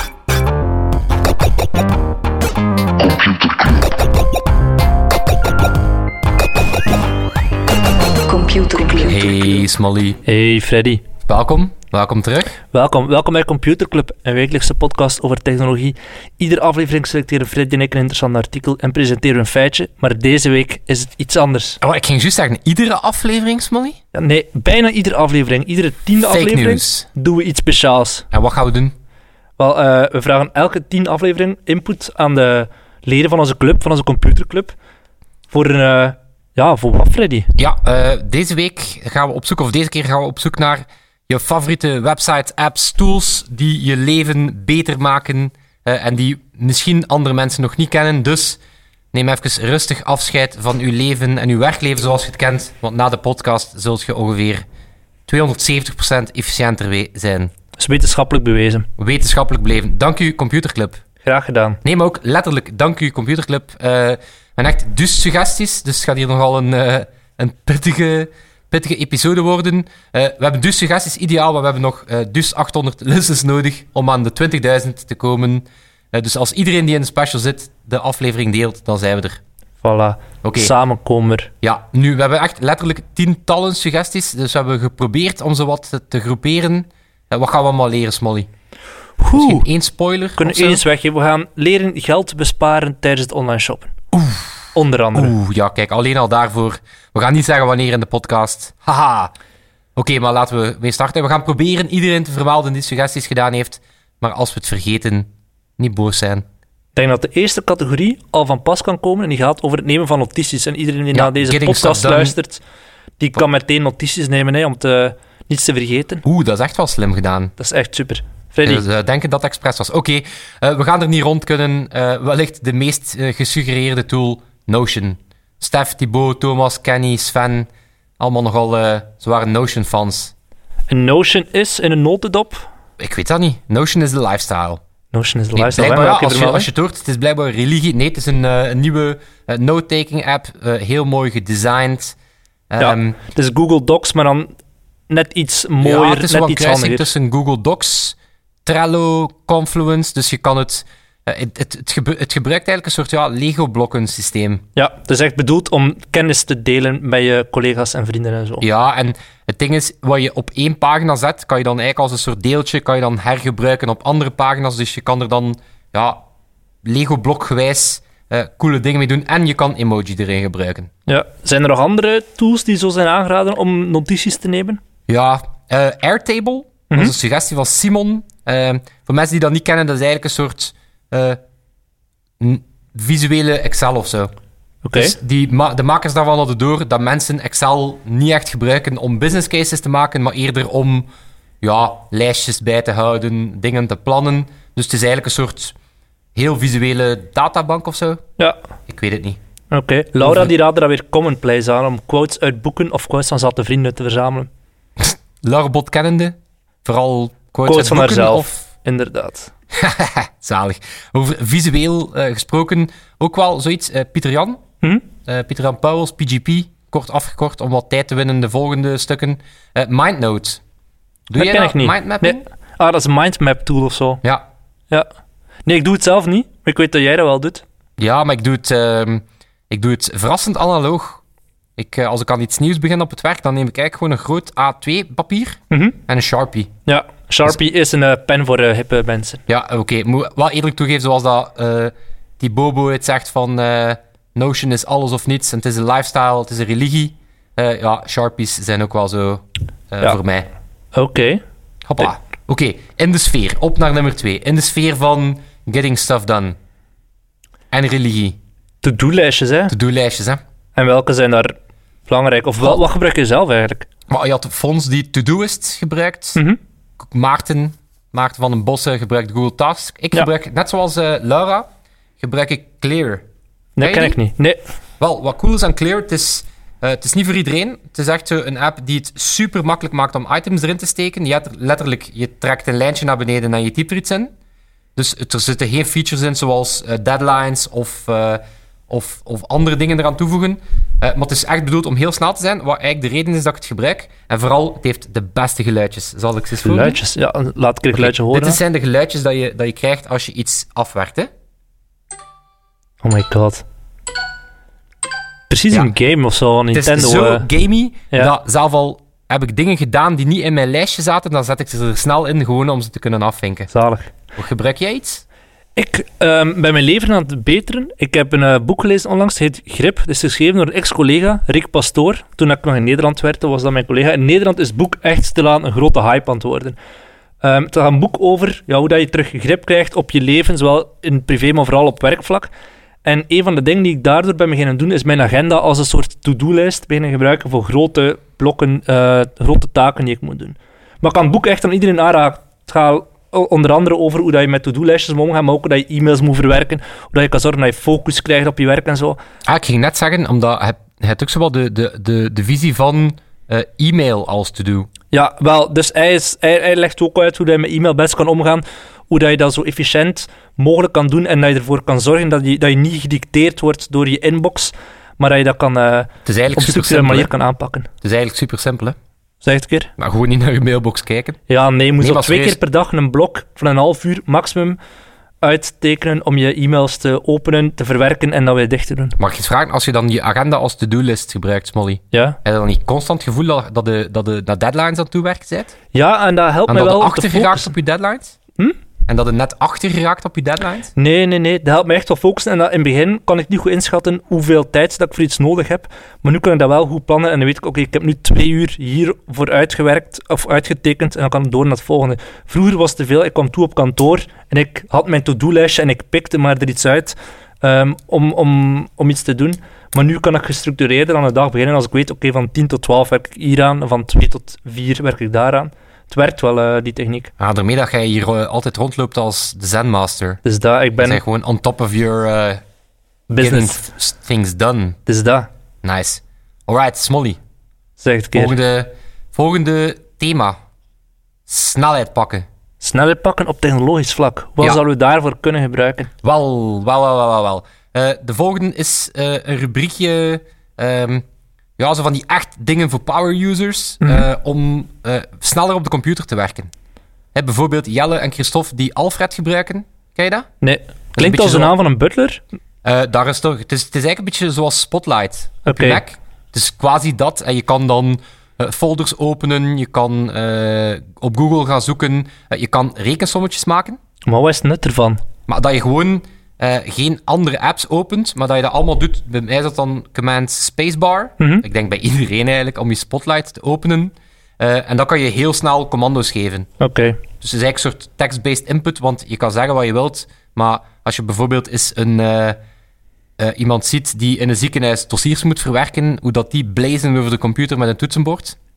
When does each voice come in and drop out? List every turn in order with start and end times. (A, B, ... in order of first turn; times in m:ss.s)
0:03.1-0:03.8 A
0:08.3-0:09.6 A
0:09.0-0:10.2 B
0:10.2-0:11.0 C
0:11.3-0:12.6 B
0:12.7-0:21.8 C
0:21.8-0:24.0 B
0:24.1-0:28.3 C
0:26.2-0:27.1 B
0:28.3-0:29.0 B
0:29.6-0:34.8 C
0:35.5-0:37.6 C
0:37.6-0:48.6 B
0:49.1-0:54.6 B
0:55.3-0:57.5 B
0:57.8-0:58.9 C
0:59.0-1:01.0 B
1:01.2-1:01.8 C
1:01.8-1:19.4 B
1:19.8-1:21.5 C
1:20.4-1:20.7 B
1:21.6-1:28.5 B
1:29.2-1:29.7 C
1:29.3-1:30.8 B
1:30.4-1:33.9 C
1:34.1-1:39.3 B
1:34.8-1:35.4 C
1:40.0-1:46.4 B
1:47.0-1:52.6 C
1:51.1-1:52.4 B
1:53.2-1:56.2 C
1:56.2-1:57.5 B
1:57.6-1:58.8 C
1:58.6-2:07.7 B
2:08.2-2:10.3 B
2:10.9-2:12.7 C
2:13.0-2:14.8 B
2:15.1-2:16.7 C
2:15.6-2:22.2 B
2:22.7-2:23.2 B
2:22.8-2:24.5 C
2:25.1-2:27.1 C
2:25.8-2:34.6 B
2:34.8-2:38.6 C
2:38.6-2:46.2 B
2:46.8-2:50.9 B
2:51.1-2:54.8 C
2:55.1-3:01.4 B
3:02.4-3:04.3 B
3:04.8-3:05.2 C
3:04.9-3:11.1 B
3:11.6-3:15.8 B
3:16.4-3:18.2 B
3:18.9-3:19.4 B
3:19.7-3:24.5 C
3:20.2-3:20.5 B
3:25.0-3:28.6 B
3:27.7-3:29.5 C
3:29.7-3:34.6 B
3:35.3-3:40.6 B
3:41.3-3:42.4 B
3:41.4-3:44.2 C
3:45.7-3:47.6 C
3:48.0-3:51.2 B
3:51.8-3:56.7 B
3:55.7-3:56.0 C
3:56.9-3:59.4 C
3:59.5-4:10.5 B
4:11.0-4:11.4 C
4:11.9-4:16.6 B
4:17.7-4:18.4 B
4:18.8-4:19.7 C
4:19.7-4:20.4 B
4:20.8-4:21.6 C
4:22.1-4:23.9 C
4:24.1-4:26.4 B
4:27.0-4:31.7 B
4:32.2-4:33.2 B
4:33.8-4:34.6 C
4:33.8-4:34.2 B
4:35.0-4:44.3 B
4:45.0-4:57.0 B
4:56.6-4:58.6 C
4:57.9-5:01.3 B
5:03.0-5:03.6 C
5:05.5-5:07.5 C
5:06.7-5:13.7 B
5:13.7-5:14.1 C
5:14.4-5:15.2 B
5:15.8-5:26.8 C
5:27.4-5:32.5 C
5:33.0-5:49.2 C
5:49.5-5:54.9 B
5:55.1-6:07.9 C
6:06.2-6:07.3 B
6:08.0-6:09.0 B
6:09.4-6:09.9 C
6:10.0-6:11.4 B
6:11.5-6:14.8 C
6:12.0-6:12.6 B
6:15.4-6:19.2 C
6:19.2-6:25.8 B
6:22.1-6:22.4 C
6:25.9-6:27.7 C
6:26.7-6:28.4 B
6:29.1-6:30.9 B
6:31.0-6:57.3 C
6:57.4-7:00.4 B
7:00.4-7:01.2 C
7:01.0-7:02.6 B
7:03.3-7:03.9 C
7:03.4-7:05.0 B
7:05.1-7:05.5 C
7:05.8-7:07.4 B
7:08.0-7:08.6 C
7:08.3-7:10.6 B
7:11.5-7:12.5 B
7:12.8-7:16.1 C
7:16.2-7:21.2 B
7:21.8-7:26.7 B
7:24.0-7:24.3 C
7:27.3-7:30.5 B
7:30.6-7:32.4 C
7:31.2-7:31.7 B
7:32.8-7:44.0 B
7:35.6-7:36.0 C
7:44.3-7:45.2 C
7:45.5-7:56.7 B
7:51.4-7:51.6 C
7:56.8-7:57.2 C
7:57.4-8:02.6 B
8:03.4-8:08.6 B